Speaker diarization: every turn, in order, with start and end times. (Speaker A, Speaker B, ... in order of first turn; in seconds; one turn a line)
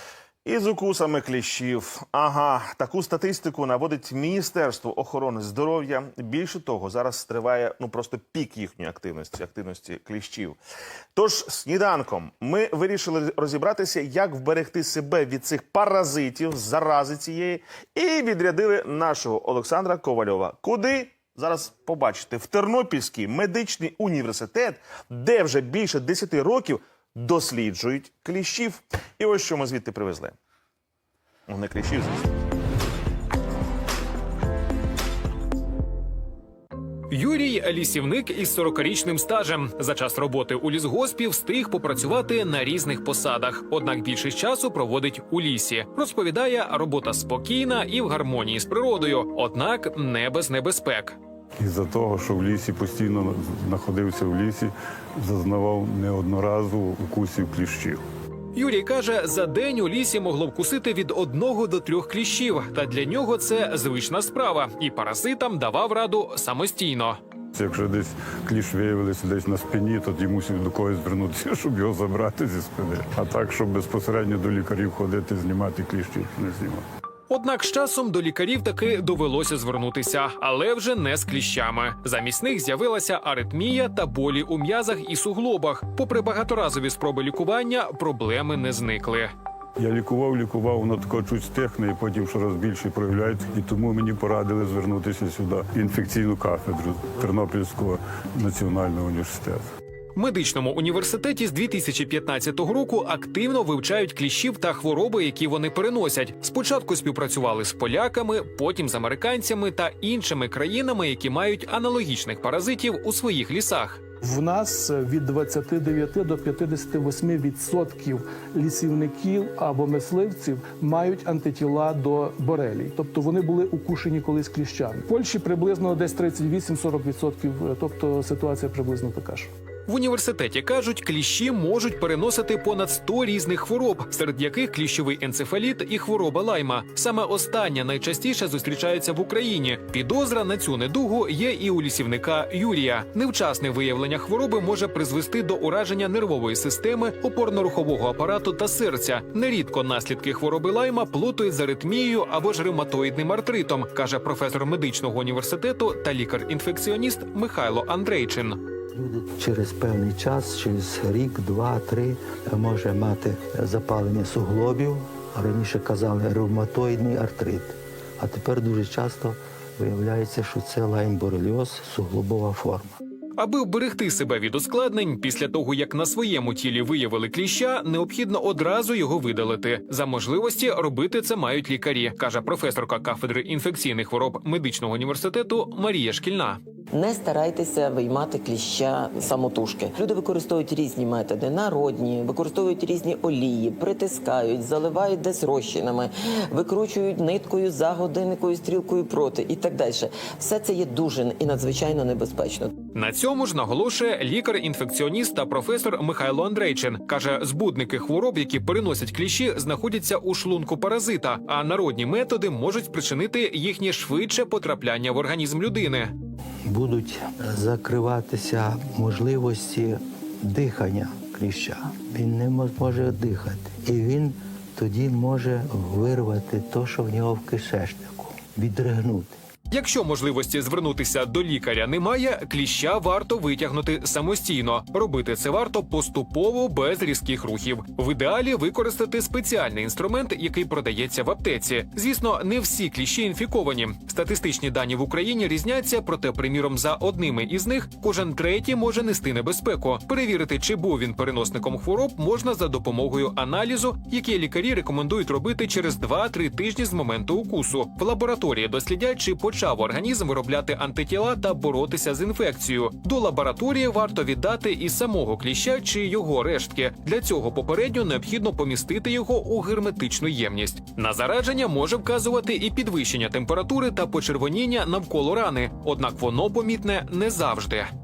Speaker A: 0.5-10.6
Speaker A: 11.2-30.4
Speaker A: 31.5-32.2
Speaker B: 37.1-51.2
Speaker C: 51.6-58.0
Speaker B: 58.5-67.2
Speaker C: 67.5-76.8
Speaker B: 77.3-89.3
Speaker C: 89.8-99.7
Speaker B: 100.2-114.0
Speaker D: 114.2-129.5
Speaker B: 129.9-158.6
Speaker E: 158.9-172.9
Speaker B: 173.4-186.6
Speaker F: 186.9-202.7
Speaker B: 202.9-216.1
Speaker E: 216.7-229.3
Speaker B: 229.7-277.9